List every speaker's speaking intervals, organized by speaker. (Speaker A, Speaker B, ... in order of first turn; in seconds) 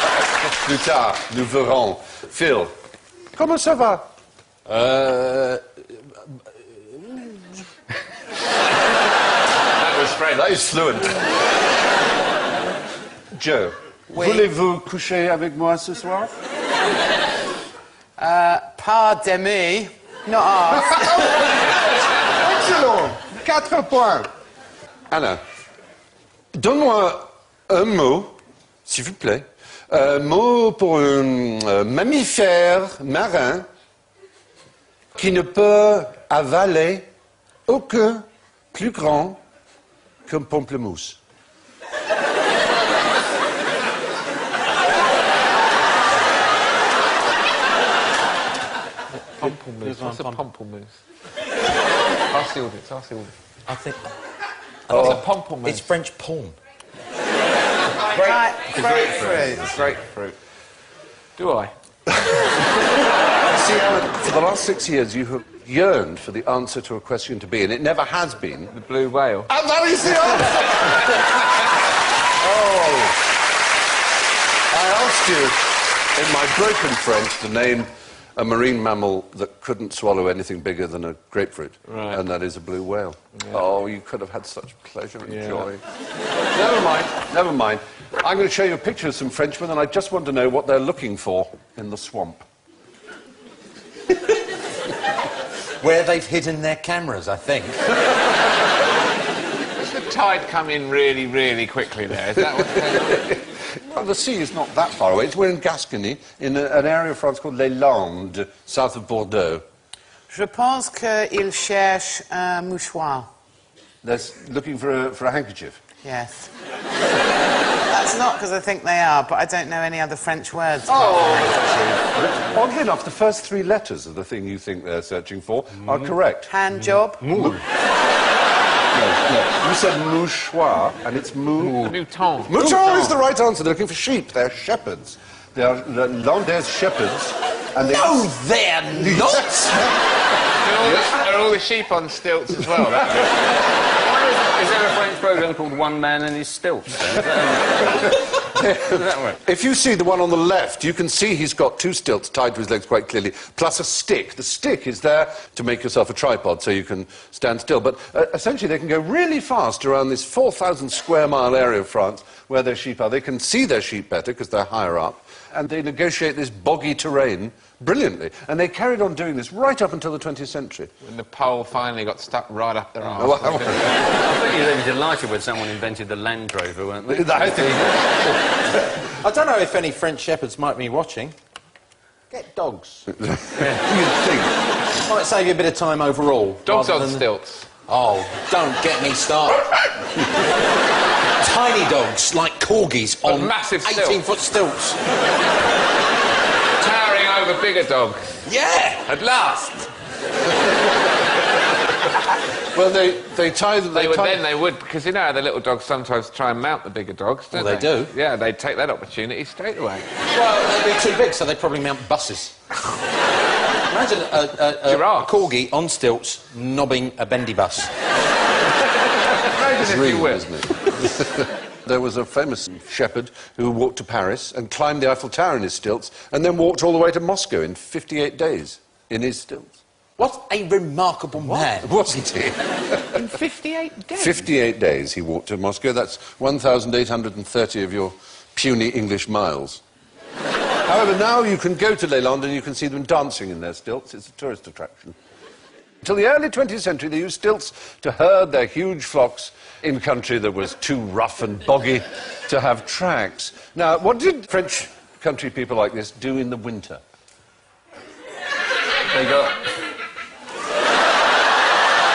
Speaker A: 0.4-2.8, 3.4-4.1, 10.3-11.3, 13.3-16.4, 21.0-24.3, 25.1-25.4, 26.5-28.4, 28.9-33.7, 35.1-37.1, 37.7-39.4, 40.3-41.2, 54.9-55.2, 63.4-68.7, 69.5-71.3, 72.3-73.2, 74.7-85.8, 86.5-92.5, 102.6-109.6, 114.0-115.8, 120.9-126.5, 127.3-127.6, 128.9-138.3, 138.9-139.9, 148.4-170.9, 173.2-174.0, 177.1-179.0, 183.2-184.6, 202.7-204.4, 219.4-229.8, 231.5-233.4, 234.1-239.8, 240.8-245.2, 246.0-257.0
Speaker B: 4.7-5.6, 49.4-50.4, 53.7-54.1, 54.9-56.6, 95.8-98.0, 127.2-127.6, 137.8-139.7, 179.2-181.4, 182.3-183.1, 185.0-187.2, 187.9-189.9, 191.4-195.0, 198.5-199.0, 207.5-208.1, 210.3-212.6, 213.9-217.9, 230.2-232.1
Speaker C: 9.8-10.7, 49.4-51.0, 52.3-53.3, 54.9-55.9, 58.8-60.4, 61.4-61.7, 68.7-69.5, 81.9-82.2, 85.3-85.7, 99.8-103.3, 131.8-133.1, 140.6-143.6, 171.0-173.9, 186.7-187.7, 193.2-194.2, 196.8-198.4, 199.1-199.9, 203.9-210.1, 214.9-215.5, 219.3-220.4, 233.2-234.3
Speaker D: 14.2-14.4, 18.2-21.5, 58.1-59.7, 110.3-113.3, 116.0-116.5, 117.9-121.7, 126.5-127.5
Speaker E: 144.0-148.2, 148.9-149.4, 174.0-177.9, 259.1-259.6